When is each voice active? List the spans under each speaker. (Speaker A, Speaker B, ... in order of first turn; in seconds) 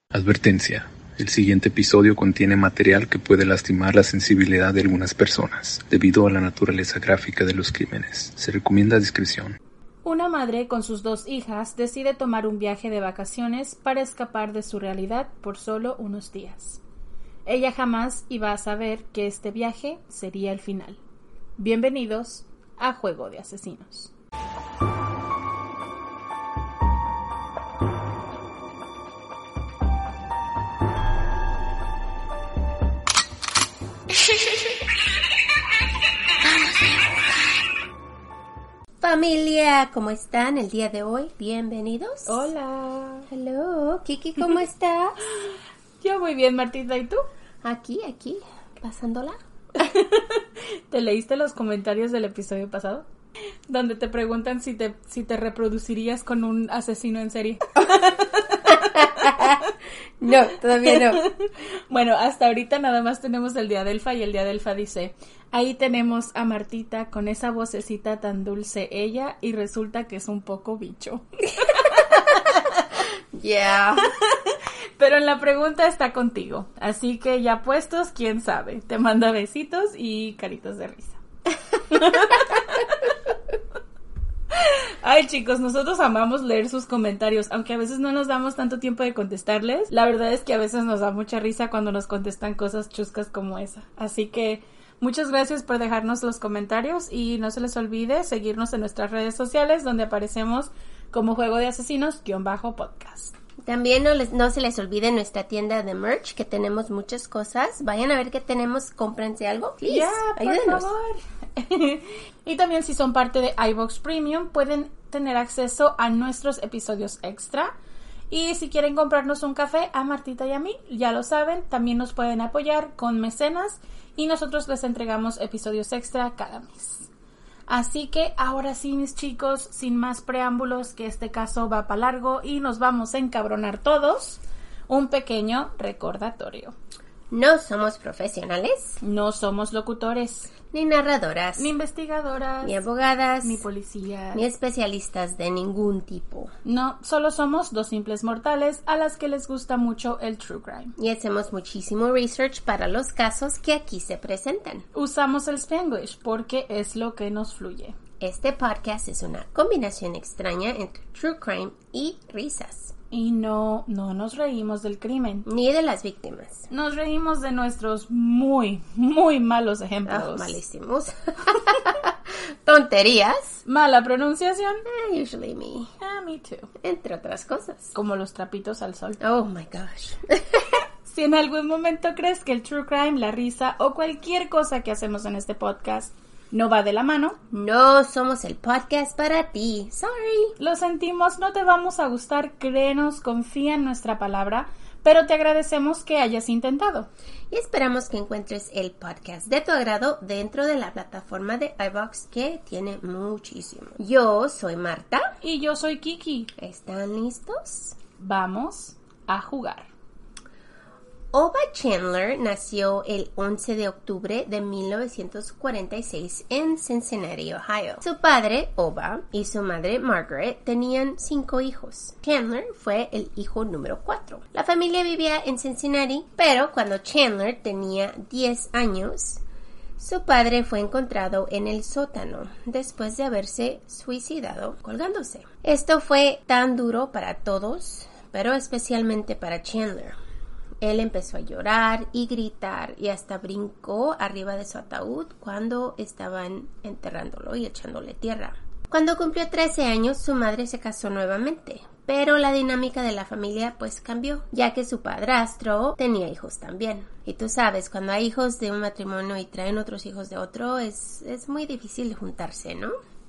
Speaker A: 0.1-9.6
Speaker B: 10.0-16.8, 17.4-21.0, 21.6-24.1, 42.3-43.3, 46.0-47.2, 49.8-53.0, 53.7-59.7, 60.8-72.7, 74.0-81.2, 81.9-83.1, 84.5-103.3, 109.8-117.7, 118.3-127.1, 127.7-136.7, 139.0-140.5, 141.6-142.8, 143.4-144.4, 146.6-150.9, 154.9-158.0, 163.1-165.4, 166.7-170.6, 173.7-174.8, 176.0-176.7, 177.9-179.2, 181.0-187.4, 190.6-197.1, 205.4-206.5, 208.2-209.9
Speaker C: 39.0-42.4, 43.3-45.3, 47.6-49.9, 58.7-59.7, 60.2-61.3, 73.3-74.1, 103.6-110.9, 137.3-139.0, 140.7-141.7, 142.6-143.6, 144.3-146.5, 151.0-154.8, 158.2-162.9, 165.4-166.7, 170.1-173.6, 174.9-175.9, 176.8-177.9, 179.2-180.8, 187.5-190.5, 197.5-205.3, 206.6-207.9, 211.3-229.4, 230.0-240.2, 240.8-262.9